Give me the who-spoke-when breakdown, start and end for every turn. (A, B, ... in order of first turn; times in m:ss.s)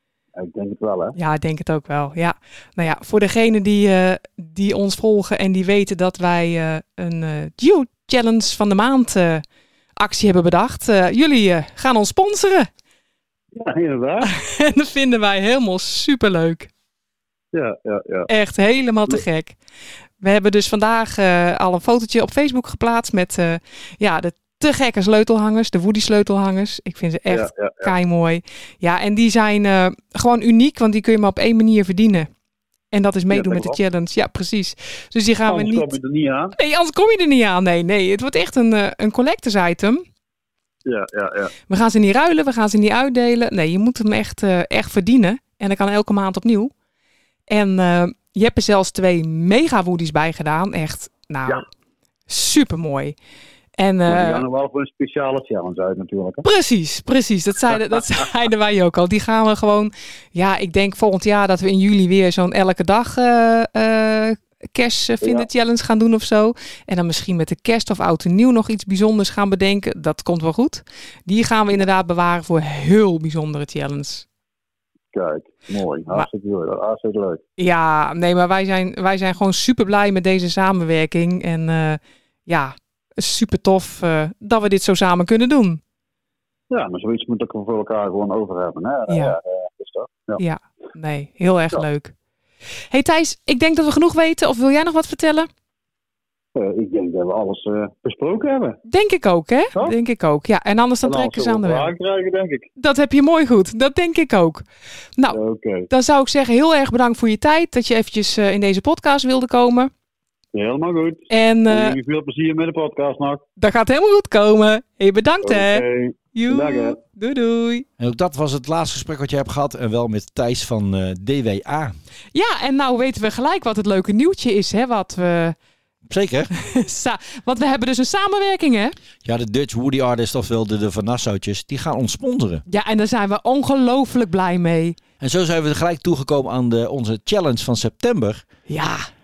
0:00.4-0:01.2 A
0:01.2-0:09.4 B
0:10.0-0:12.7 B
0:13.5-0:14.3 A
0:14.2-0:16.7 B
0:17.5-0:18.3 A
0:18.3-0:19.6 B
0:20.2-0:32.3 B
0:27.3-0:27.9 A
0:32.9-0:35.9 B
0:33.3-0:33.8 A
0:35.5-0:36.5 A
0:36.6-0:40.0 B
0:40.8-0:41.5 A
0:41.7-0:46.7 B
0:47.5-0:51.6 B
0:52.3-0:53.1 B
0:53.8-0:54.4 B
0:54.1-0:56.4 A
0:56.4-1:14.2 B
1:05.2-1:05.5 A
1:15.1-1:17.4 A
1:17.6-1:25.8 B
1:26.7-1:30.4 A
1:29.1-1:29.4 B
1:30.4-1:32.1 B
1:32.9-1:35.5 B
1:36.5-1:38.8 A
1:38.9-1:41.9 B
1:41.0-1:42.7 A
1:42.8-1:44.6 B
1:45.3-1:45.9 A
1:45.9-1:49.9 B
1:50.5-1:53.4 A
1:51.3-1:52.0 B
1:53.6-1:57.9 B
1:55.4-1:57.0 A
1:58.0-2:02.0 C
2:02.3-2:05.6 B
2:06.1-2:06.5 C
2:06.5-2:08.9 B
2:09.2-2:12.6 C
2:12.7-2:15.0 B
2:15.2-2:18.4 C
2:18.7-2:19.1 B